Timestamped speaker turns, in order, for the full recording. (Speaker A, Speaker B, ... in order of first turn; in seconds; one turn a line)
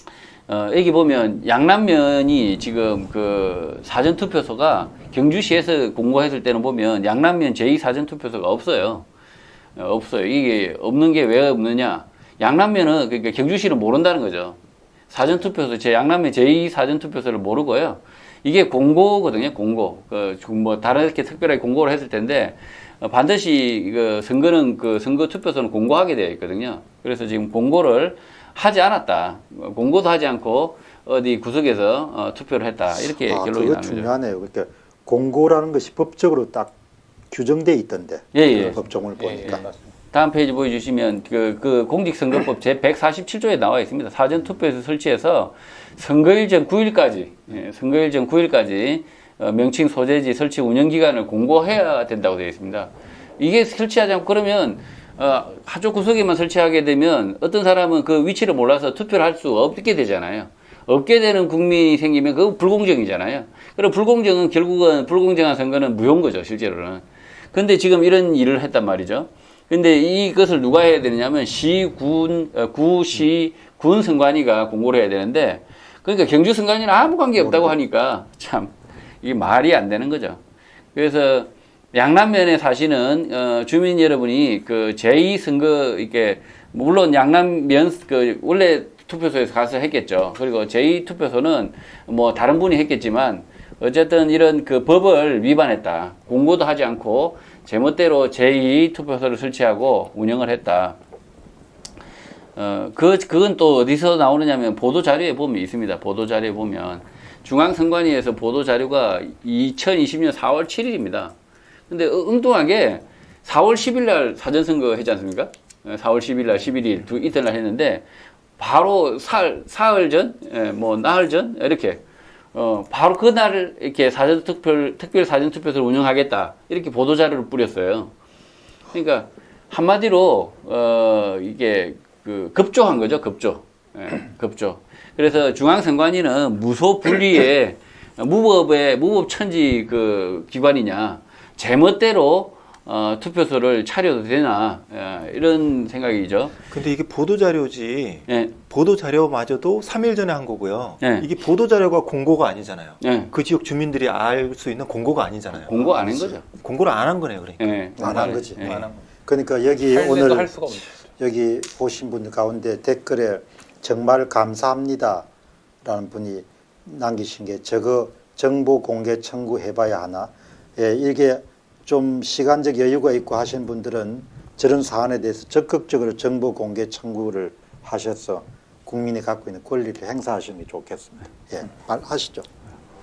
Speaker A: 0.5-9.1
Speaker A: 9.8-14.6
Speaker A: 15.1-34.1
Speaker B: 33.0-36.7
Speaker B: 37.3-39.6
Speaker A: 38.3-38.8
Speaker C: 38.7-39.8
Speaker A: 40.1-80.4
Speaker B: 77.4-77.8
Speaker A: 80.9-101.0
Speaker A: 102.5-111.3
Speaker A: 111.9-118.0
Speaker A: 118.6-122.0
Speaker A: 122.5-128.1
Speaker A: 128.9-146.6
Speaker D: 146.7-155.9
Speaker A: 148.3-148.6
Speaker A: 151.0-151.3
Speaker A: 153.0-153.3
Speaker A: 155.6-156.4
Speaker B: 155.8-156.4
Speaker D: 156.4-157.8
Speaker A: 157.6-158.8
Speaker B: 158.0-165.2
Speaker C: 158.0-159.1
Speaker C: 159.8-161.0
Speaker B: 165.8-182.5